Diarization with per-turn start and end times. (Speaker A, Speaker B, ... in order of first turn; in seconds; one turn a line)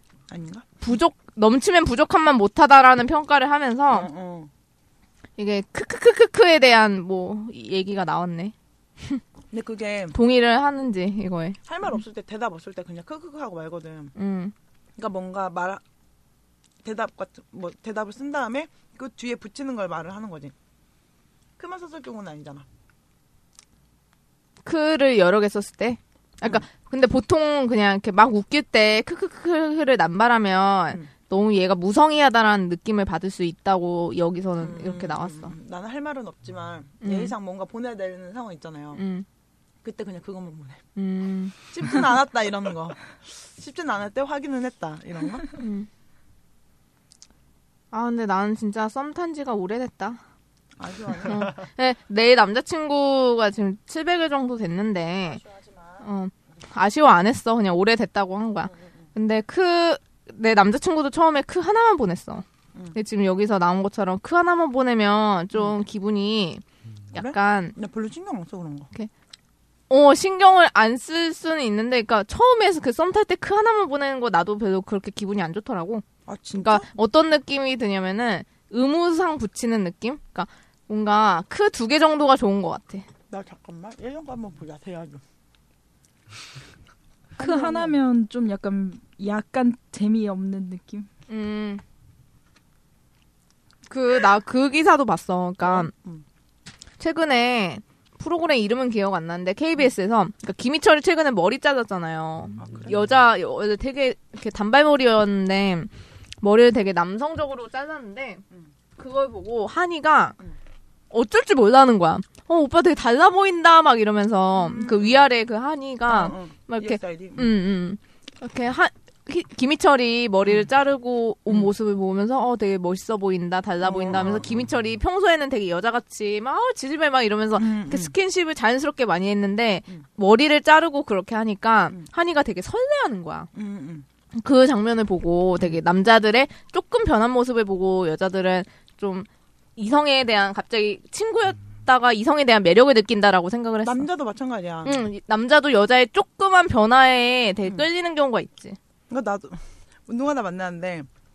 Speaker A: 0.3-0.7
Speaker B: 0.8-4.1
Speaker A: 3.9-4.5
Speaker B: 5.4-9.2
Speaker A: 9.5-10.2
Speaker B: 10.1-11.6
Speaker A: 11.7-14.1
Speaker B: 14.2-14.5
Speaker A: 14.9-15.8
Speaker A: 16.8-20.5
Speaker A: 21.6-22.6
Speaker B: 24.6-35.5
Speaker A: 34.6-39.0
Speaker B: 37.0-37.3
Speaker B: 38.9-39.2
Speaker A: 39.8-40.8
Speaker B: 41.0-41.5
Speaker A: 41.7-45.5
Speaker B: 45.6-45.9
Speaker B: 47.9-50.2
Speaker A: 50.8-51.6
Speaker B: 51.2-55.4
Speaker A: 55.3-56.0
Speaker B: 56.0-67.7
Speaker A: 67.1-68.9
Speaker B: 69.9-76.0
Speaker A: 76.2-76.9
Speaker B: 76.5-83.1
Speaker A: 83.3-85.2
Speaker C: 87.4-91.1
Speaker A: 87.4-88.0
Speaker B: 91.3-91.8
Speaker B: 93.9-95.9
Speaker A: 95.6-96.2
Speaker B: 97.0-108.4
Speaker A: 102.6-103.0
Speaker B: 109.0-110.4
Speaker B: 111.1-133.5
Speaker A: 114.6-115.2
Speaker A: 116.1-117.5
Speaker A: 123.8-124.5
Speaker A: 127.6-128.1
Speaker A: 133.5-134.1
Speaker B: 134.3-144.1
Speaker A: 143.8-145.0
Speaker B: 144.8-148.8
Speaker A: 149.1-151.1